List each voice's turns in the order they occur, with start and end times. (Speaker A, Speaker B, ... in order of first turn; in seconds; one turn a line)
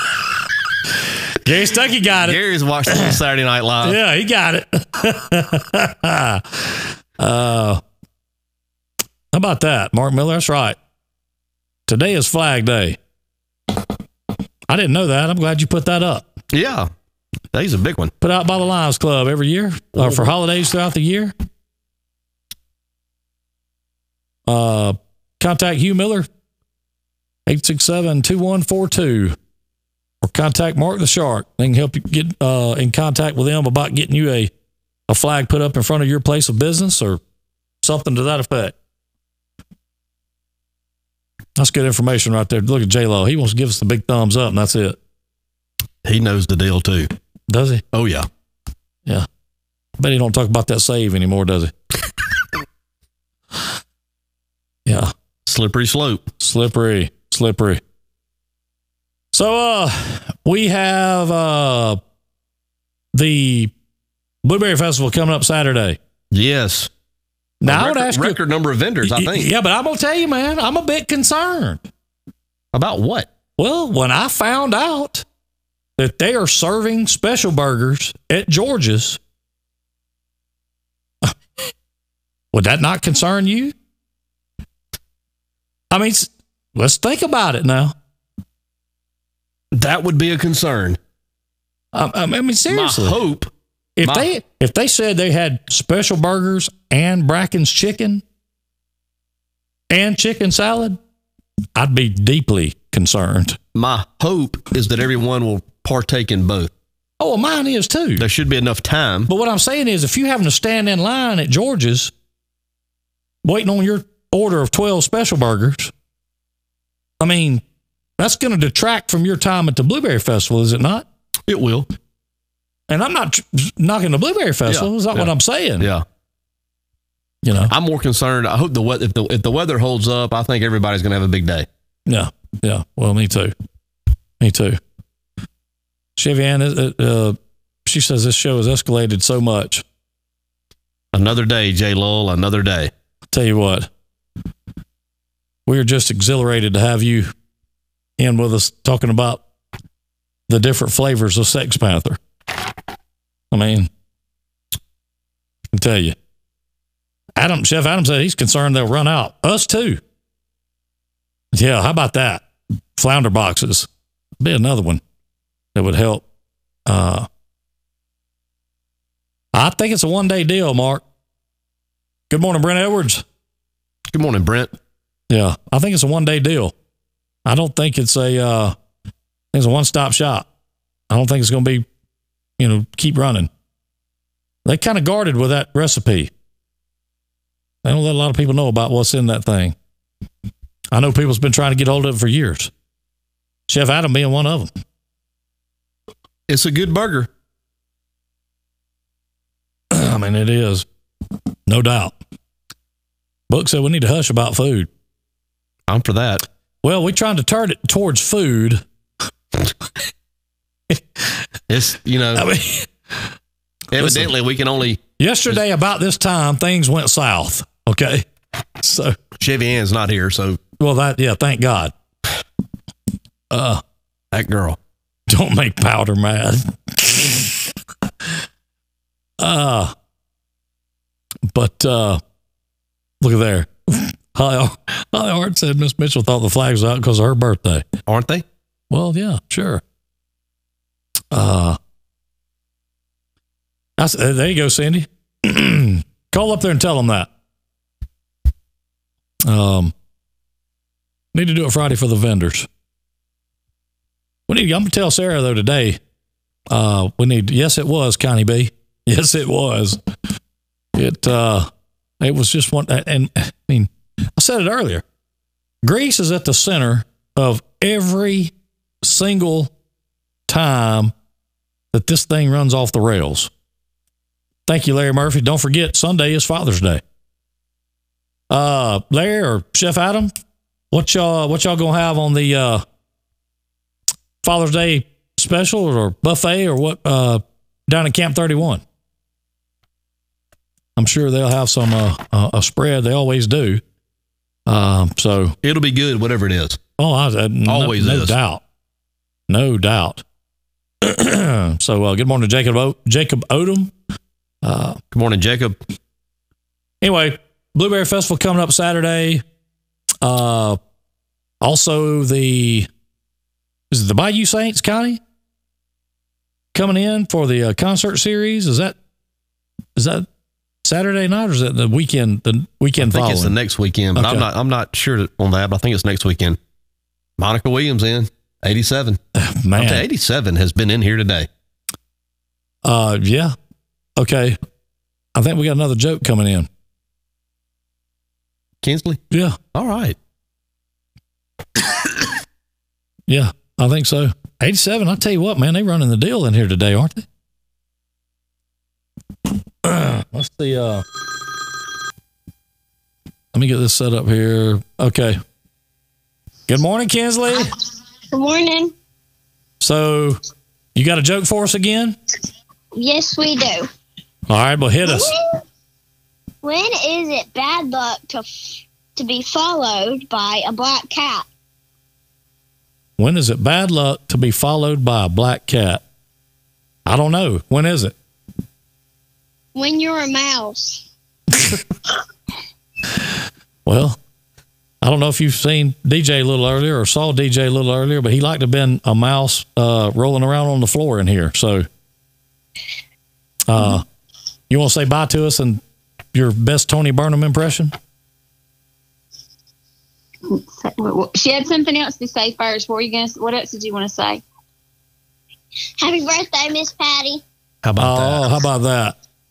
Speaker A: 1.4-3.2
Speaker B: 2.2-4.0
Speaker A: 3.8-7.8
Speaker A: 9.3-10.8
Speaker A: 11.9-13.0
Speaker A: 14.7-16.3
Speaker B: 16.5-16.9
Speaker B: 17.5-18.1
Speaker A: 18.2-21.3
Speaker B: 20.0-20.3
Speaker A: 24.5-26.3
Speaker A: 27.5-29.4
Speaker A: 30.2-34.5
Speaker A: 35.1-37.2
Speaker A: 37.8-38.8
Speaker A: 41.6-45.0
Speaker B: 46.0-47.1
Speaker A: 47.5-47.8
Speaker B: 47.9-48.3
Speaker A: 50.0-51.7
Speaker A: 54.9-55.1
Speaker B: 55.5-56.3
Speaker A: 56.4-57.8
Speaker A: 59.3-62.0
Speaker A: 63.1-63.7
Speaker A: 64.4-66.0
Speaker B: 66.3-66.9
Speaker A: 67.6-68.4
Speaker B: 67.7-69.5
Speaker A: 69.0-71.8
Speaker B: 72.7-73.3
Speaker A: 73.6-75.2
Speaker A: 76.0-79.2
Speaker A: 82.5-83.8
Speaker A: 85.9-88.0
Speaker B: 89.7-91.0
Speaker A: 91.9-93.2
Speaker B: 92.7-93.5
Speaker A: 94.0-98.2
Speaker A: 99.9-101.0
Speaker A: 101.8-103.6
Speaker B: 103.8-106.7
Speaker A: 107.2-108.3
Speaker B: 108.2-109.3
Speaker A: 109.3-112.1
Speaker A: 113.4-115.9
Speaker A: 117.2-117.6
Speaker A: 118.2-121.1
Speaker B: 121.5-121.9
Speaker A: 122.9-125.9
Speaker B: 124.7-126.0
Speaker A: 127.4-127.7
Speaker B: 127.7-131.7
Speaker A: 132.1-133.5
Speaker A: 134.4-134.8
Speaker A: 136.2-139.8
Speaker B: 141.1-142.9
Speaker A: 143.3-143.9
Speaker A: 145.7-147.3
Speaker A: 148.2-149.4
Speaker A: 150.5-152.2
Speaker A: 153.5-153.9
Speaker A: 155.7-156.2
Speaker A: 157.4-160.0
Speaker A: 161.5-162.4
Speaker A: 163.0-163.9
Speaker A: 164.4-165.0
Speaker A: 165.8-166.2
Speaker A: 166.9-167.3
Speaker A: 169.5-171.0
Speaker A: 172.3-173.2
Speaker B: 174.1-174.7
Speaker A: 175.3-176.7
Speaker A: 177.5-178.8
Speaker A: 179.5-180.5
Speaker A: 181.1-181.9
Speaker A: 182.6-183.5
Speaker A: 184.7-186.3
Speaker A: 187.8-189.8
Speaker A: 190.9-192.7
Speaker A: 193.7-194.7
Speaker B: 196.5-197.3
Speaker A: 199.9-200.9
Speaker A: 201.7-202.2
Speaker A: 203.5-204.9
Speaker B: 205.9-206.4
Speaker A: 206.8-208.8
Speaker A: 210.9-211.3
Speaker B: 211.7-212.5
Speaker A: 212.3-213.2
Speaker B: 213.9-215.0
Speaker A: 213.9-214.3
Speaker A: 215.2-218.3
Speaker A: 218.8-219.2
Speaker B: 219.4-220.6
Speaker A: 220.8-221.9
Speaker A: 223.5-223.8
Speaker B: 224.3-224.8
Speaker A: 225.3-227.7
Speaker A: 229.4-229.9
Speaker A: 231.5-232.2
Speaker A: 233.2-237.9
Speaker B: 238.1-238.4
Speaker A: 238.9-239.8
Speaker A: 241.3-241.8
Speaker A: 244.0-247.3
Speaker A: 249.4-249.9
Speaker A: 251.3-252.7
Speaker A: 254.5-256.0
Speaker A: 256.7-260.0
Speaker A: 260.9-265.0
Speaker A: 265.8-269.7
Speaker A: 270.5-271.1
Speaker A: 271.9-273.5
Speaker A: 274.7-277.0
Speaker A: 278.5-280.3
Speaker A: 280.9-282.8
Speaker A: 284.4-288.8
Speaker A: 291.0-293.8
Speaker A: 294.7-295.6
Speaker B: 295.6-296.8
Speaker A: 297.0-298.6
Speaker B: 297.7-298.3
Speaker A: 299.5-300.2
Speaker A: 301.0-303.9
Speaker A: 304.6-305.0
Speaker B: 305.1-305.8
Speaker A: 307.0-309.4
Speaker A: 310.2-310.8
Speaker A: 311.6-312.9
Speaker A: 313.9-315.2
Speaker A: 316.7-319.0
Speaker A: 320.0-320.3
Speaker A: 320.8-323.6
Speaker B: 323.0-326.6
Speaker A: 324.1-324.5
Speaker B: 327.4-329.2
Speaker A: 329.4-330.1
Speaker B: 329.8-331.5
Speaker A: 332.8-333.6
Speaker A: 334.2-334.6
Speaker A: 335.4-336.7
Speaker B: 338.8-339.2
Speaker A: 339.3-339.6
Speaker B: 339.7-340.2
Speaker A: 343.3-347.3
Speaker A: 349.8-351.1
Speaker A: 353.5-355.4
Speaker A: 356.7-357.7
Speaker C: 358.3-358.9
Speaker A: 359.8-360.4
Speaker A: 360.9-362.2
Speaker C: 362.9-363.9
Speaker A: 364.5-365.3
Speaker C: 365.0-365.6
Speaker C: 366.6-371.5
Speaker A: 373.2-376.0
Speaker A: 377.1-378.1
Speaker C: 379.8-381.1
Speaker A: 383.9-384.2
Speaker A: 385.0-391.9
Speaker A: 393.7-394.1
Speaker A: 394.7-395.8
Speaker A: 396.3-397.9
Speaker D: 400.5-404.4
Speaker C: 406.0-407.4
Speaker B: 407.8-408.5
Speaker A: 408.0-409.2